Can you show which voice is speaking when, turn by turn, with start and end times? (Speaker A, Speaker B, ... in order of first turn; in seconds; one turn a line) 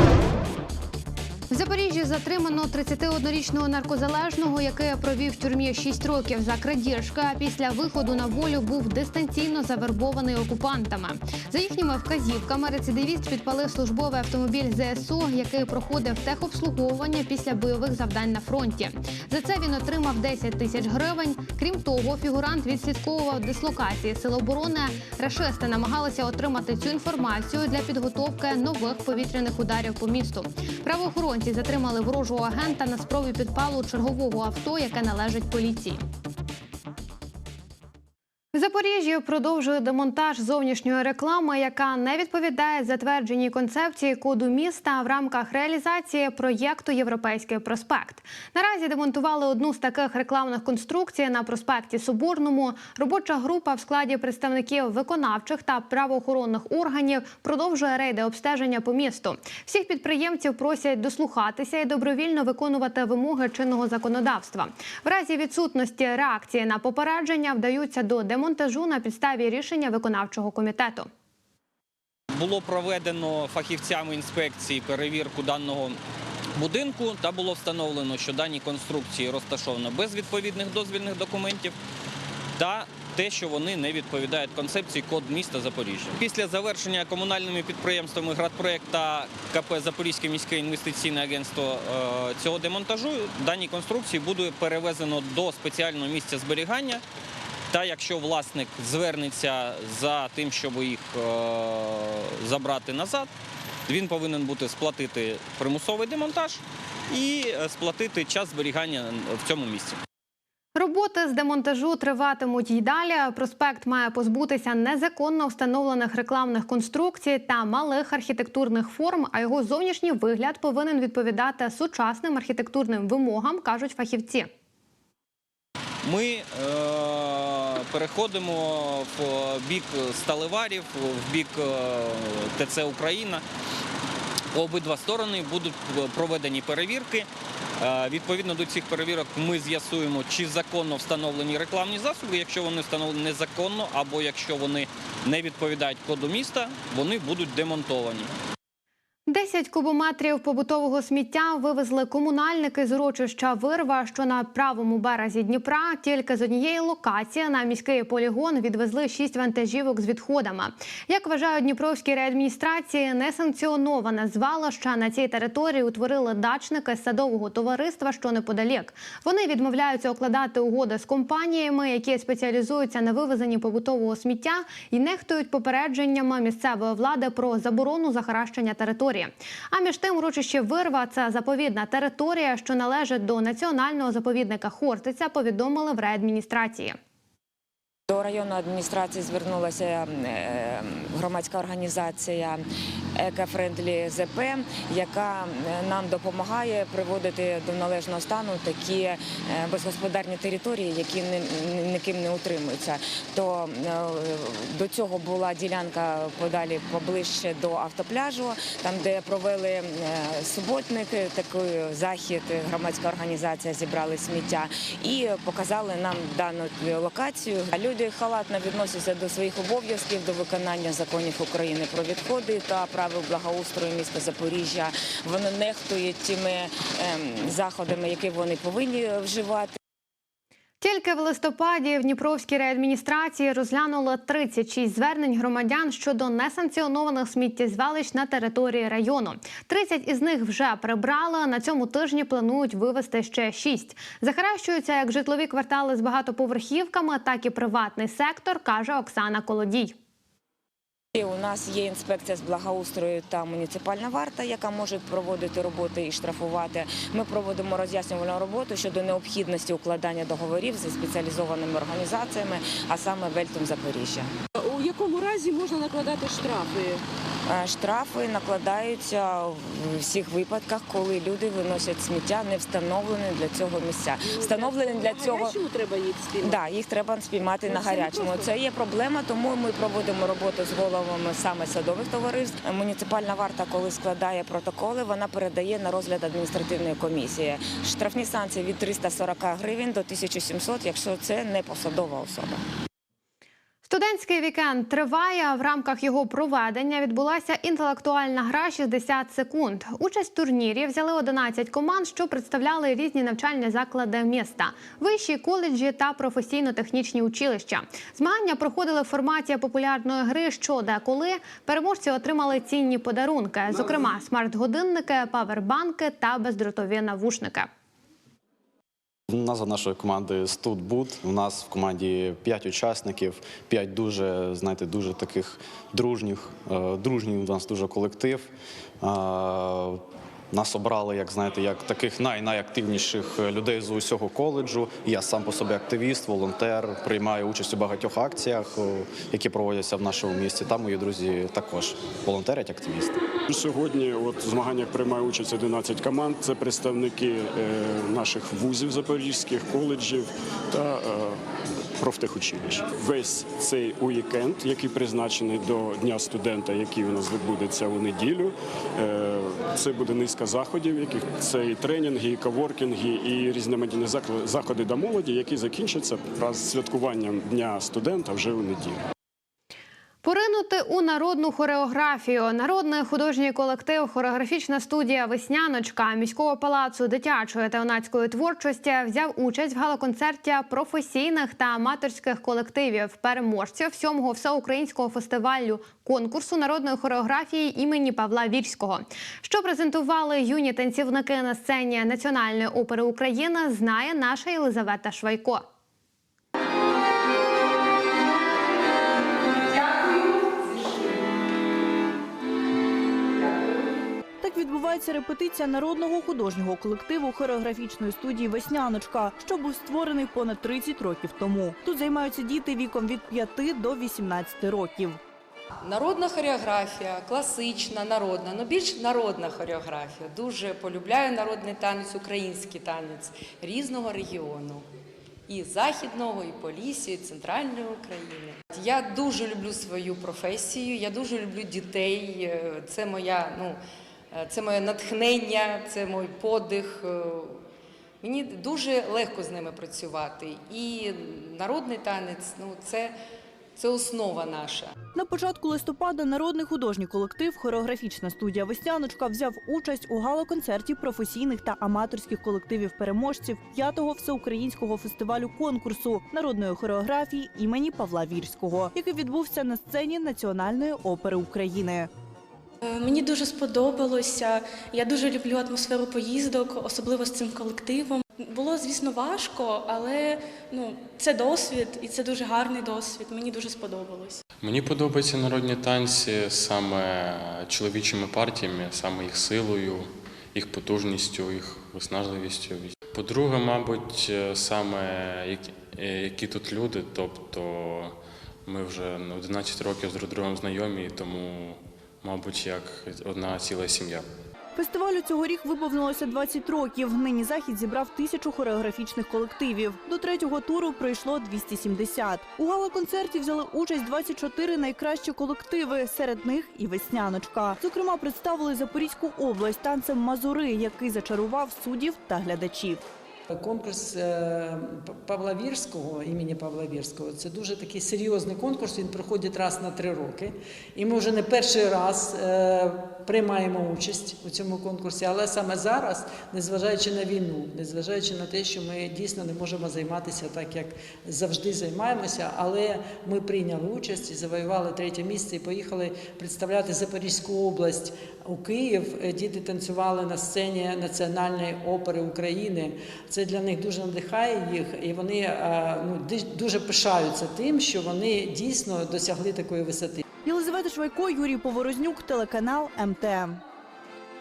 Speaker A: 1.5-36.0
Speaker A: 38.5-71.1
Speaker B: 72.3-76.0
Speaker B: 76.6-81.7
Speaker B: 82.6-97.0
Speaker B: 97.7-103.3
Speaker B: 103.9-110.0
Speaker A: 110.8-124.5
Speaker B: 126.0-133.4
Speaker B: 134.5-137.3
Speaker B: 137.8-148.3
Speaker A: 149.3-187.0
Speaker C: 188.1-192.6
Speaker C: 193.2-229.7
Speaker A: 230.8-250.0
Speaker C: 251.2-264.3
Speaker D: 264.6-267.0
Speaker C: 267.5-275.6
Speaker D: 274.2-276.6
Speaker C: 276.4-292.6
Speaker D: 277.6-278.5
Speaker A: 293.9-317.7
Speaker E: 319.3-343.2
Speaker F: 343.5-351.4
Speaker F: 352.0-369.0
Speaker A: 370.2-395.6
Speaker D: 399.7-400.9
Speaker G: 404.4-415.2
Speaker H: 415.8-424.9
Speaker H: 425.5-433.8
Speaker H: 434.3-437.6
Speaker H: 438.2-443.1
Speaker H: 443.8-444.9
Speaker G: 445.1-462.1
Speaker I: 462.9-474.4
Speaker J: 474.6-494.3
Speaker G: 494.8-513.0
Speaker K: 513.5-550.2
Speaker G: 550.5-553.6